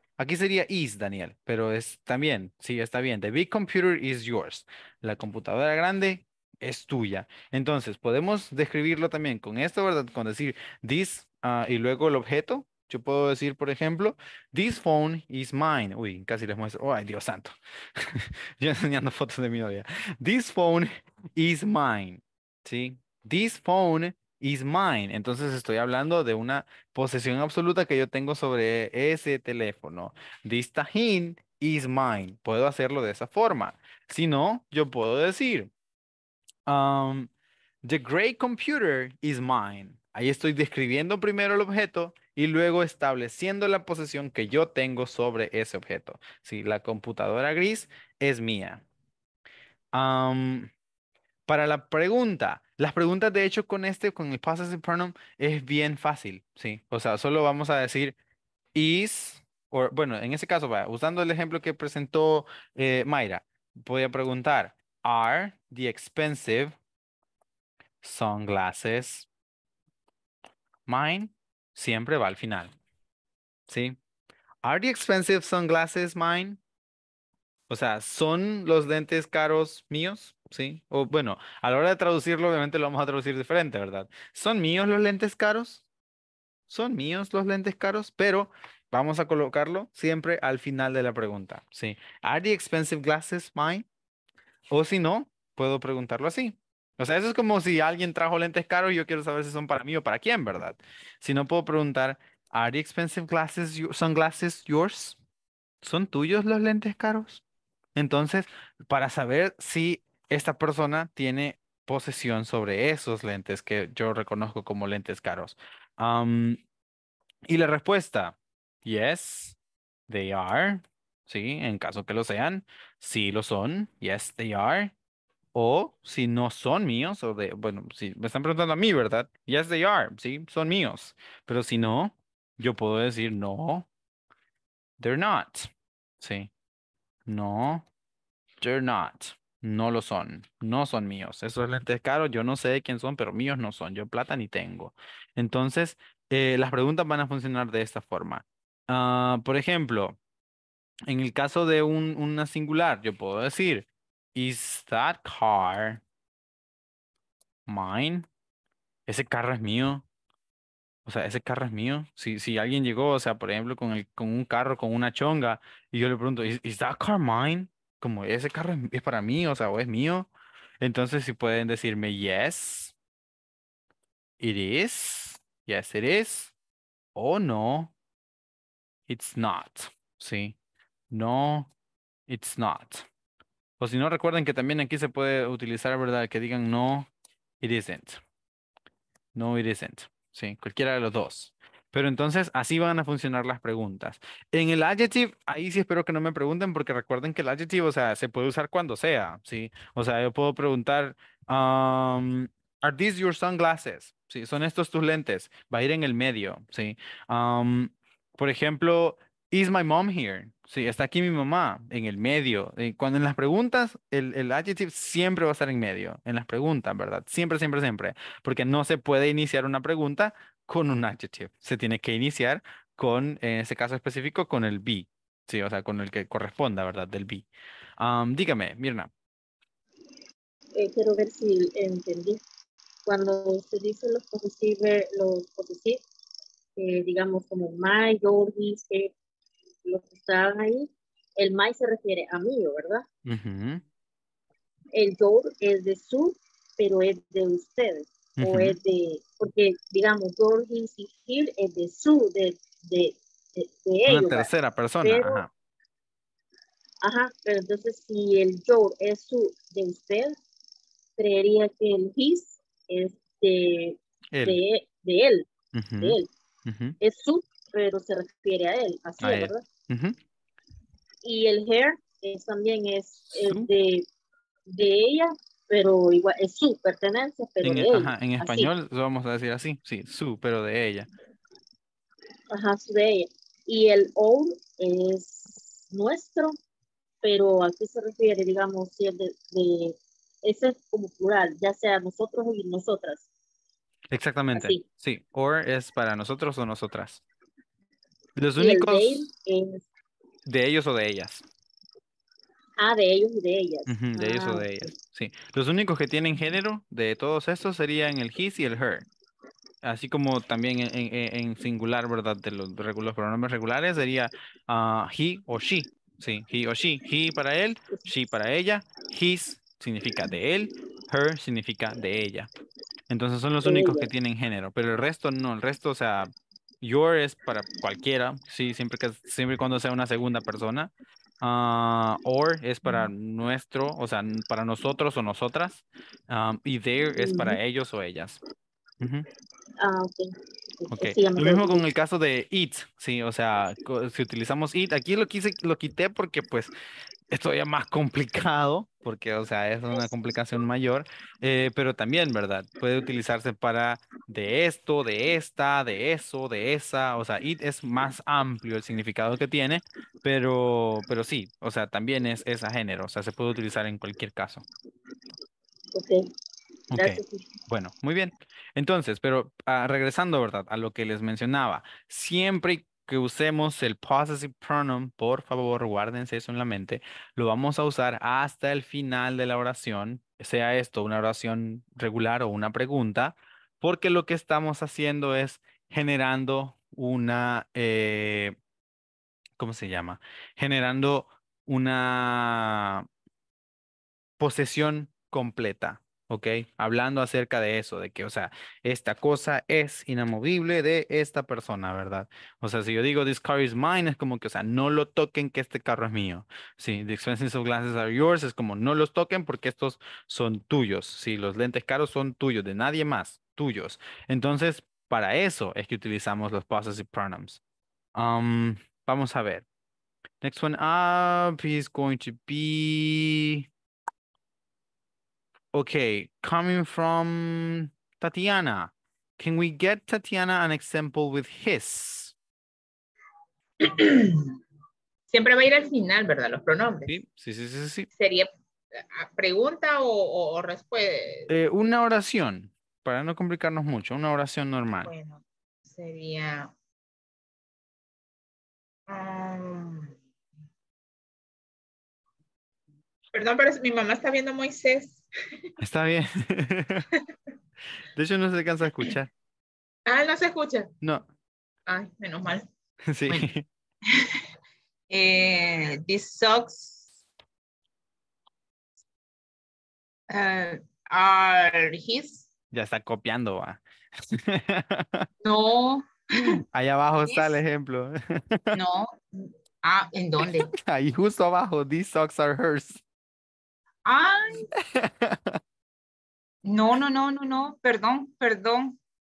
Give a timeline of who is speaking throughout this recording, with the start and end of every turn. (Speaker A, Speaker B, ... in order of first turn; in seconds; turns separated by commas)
Speaker A: 0.2-35.7, Speaker A: 36.7-37.3, Speaker A: 37.8-48.8, Speaker A: 49.9-50.7, Speaker A: 51.5-58.2, Speaker A: 58.8-66.8, Speaker A: 68.0-69.3, Speaker A: 70.9-72.7, Speaker A: 73.7-74.0, Speaker A: 74.6-76.6, Speaker A: 77.7-85.8, Speaker A: 86.7-93.8, Speaker A: 94.7-105.2, Speaker A: 105.8-107.4, Speaker A: 108.0-116.6, Speaker A: 117.5-119.6, Speaker A: 120.1-124.9, Speaker A: 125.5-133.9, Speaker A: 135.0-135.7, Speaker A: 136.2-136.5, Speaker A: 137.3-137.8, Speaker A: 138.6-150.2, Speaker A: 151.1-156.0, Speaker A: 157.7-158.3, Speaker A: 159.1-160.0, Speaker A: 161.1-170.3, Speaker A: 170.8-172.9, Speaker A: 174.4-176.5, Speaker A: 177.2-177.9, Speaker A: 179.1-180.6, Speaker A: 181.1-181.7, Speaker A: 182.3-183.1, Speaker A: 183.8-187.1, Speaker A: 187.6-188.2, Speaker A: 189.3-227.5, Speaker A: 228.0-229.1, Speaker B: 230.7-232.4, Speaker B: 233.1-236.0, Speaker B: 236.8-239.1, Speaker B: 239.8-243.1, Speaker A: 243.3-243.8, Speaker B: 244.9-254.5, Speaker A: 248.4-248.8, Speaker A: 254.1-255.5, Speaker B: 255.0-255.4, Speaker B: 257.0-260.4, Speaker B: 261.2-265.5, Speaker A: 264.3-264.6, Speaker A: 265.7-267.0, Speaker B: 266.0-266.3, Speaker B: 267.0-269.6, Speaker A: 269.2-270.2, Speaker B: 271.2-274.1, Speaker A: 273.3-273.7, Speaker B: 274.7-278.7, Speaker A: 277.6-281.1, Speaker B: 282.5-286.6, Speaker B: 287.2-293.3, Speaker A: 294.1-297.2, Speaker B: 294.5-294.8, Speaker A: 298.4-299.3, Speaker B: 298.6-299.8, Speaker A: 300.5-301.4, Speaker B: 302.8-304.9, Speaker A: 303.9-309.1, Speaker A: 309.8-322.5, Speaker A: 323.1-338.4, Speaker B: 323.6-324.1, Speaker B: 337.2-337.6, Speaker A: 339.0-339.3, Speaker B: 339.8-341.9, Speaker A: 340.9-346.7, Speaker A: 347.3-364.6, Speaker B: 365.9-366.3, Speaker A: 366.9-388.6, Speaker B: 366.9-367.5, Speaker A: 389.6-393.1, Speaker A: 394.4-417.6, Speaker A: 418.2-419.6, Speaker A: 420.4-423.6, Speaker A: 425.7-432.4, Speaker C: 433.8-434.6, Speaker C: 435.3-437.2, Speaker A: 437.1-438.1, Speaker C: 438.2-441.5, Speaker A: 441.5-445.1, Speaker C: 445.0-446.7, Speaker C: 449.1-450.1, Speaker C: 453.3-455.3, Speaker A: 455.8-457.1, Speaker A: 458.1-459.3, Speaker C: 460.1-460.9, Speaker C: 461.9-462.7, Speaker A: 463.1-463.7, Speaker C: 464.1-464.4, Speaker C: 465.1-467.0, Speaker C: 470.3-472.5, Speaker A: 472.7-475.3, Speaker C: 475.4-476.6, Speaker A: 476.7-478.8, Speaker C: 477.3-477.6, Speaker C: 478.8-480.7, Speaker A: 480.4-483.0, Speaker C: 484.1-484.7, Speaker A: 484.9-485.6, Speaker C: 486.7-489.0